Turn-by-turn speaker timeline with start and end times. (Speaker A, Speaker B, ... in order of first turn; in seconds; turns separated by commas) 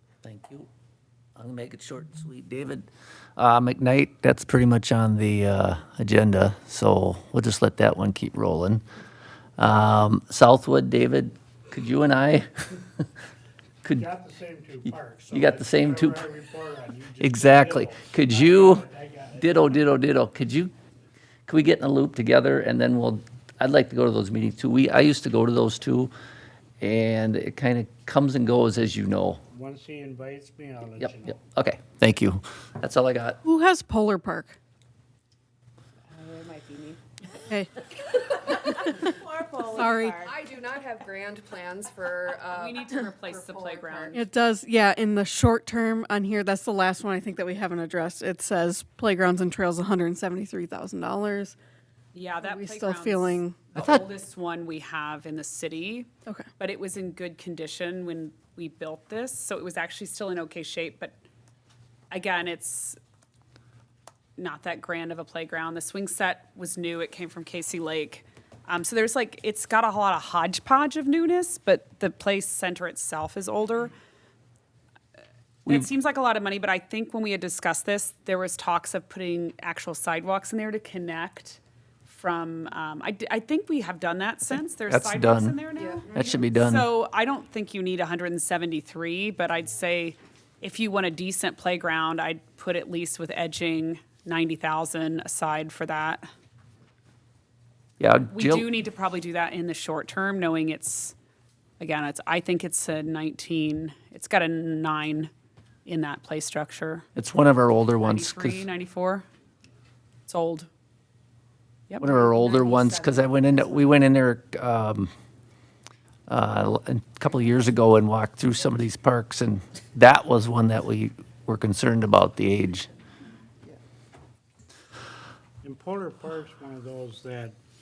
Speaker A: 0.2-0.7, Speaker A: 1.4-2.9, Speaker A: 3.4-8.8, Speaker A: 9.6-13.0, Speaker B: 13.9-19.8, Speaker A: 14.8-16.3, Speaker A: 17.2-18.9, Speaker A: 19.4-20.7, Speaker A: 21.5-26.1, Speaker A: 26.8-29.4, Speaker B: 29.5-31.4, Speaker A: 31.0-33.4, Speaker C: 33.4-34.5, Speaker D: 36.1-37.0, Speaker C: 38.7-39.1, Speaker D: 39.1-40.3, Speaker E: 39.5-44.2, Speaker C: 39.7-40.2, Speaker D: 42.4-44.2, Speaker C: 44.1-51.5, Speaker D: 52.1-61.1, Speaker C: 52.4-53.6, Speaker A: 53.8-54.0, Speaker D: 62.1-63.0, Speaker D: 64.4-73.9, Speaker D: 75.7-96.3, Speaker A: 84.9-85.6, Speaker E: 85.8-86.1, Speaker A: 86.1-86.9, Speaker A: 98.0-98.7, Speaker D: 98.3-101.1, Speaker D: 101.8-105.3, Speaker D: 105.8-107.0, Speaker A: 107.2-108.6, Speaker D: 108.0-109.2, Speaker D: 110.3-110.7, Speaker D: 111.9-112.2, Speaker A: 112.0-115.1, Speaker E: 112.1-113.4, Speaker A: 116.3-122.9, Speaker B: 125.6-127.6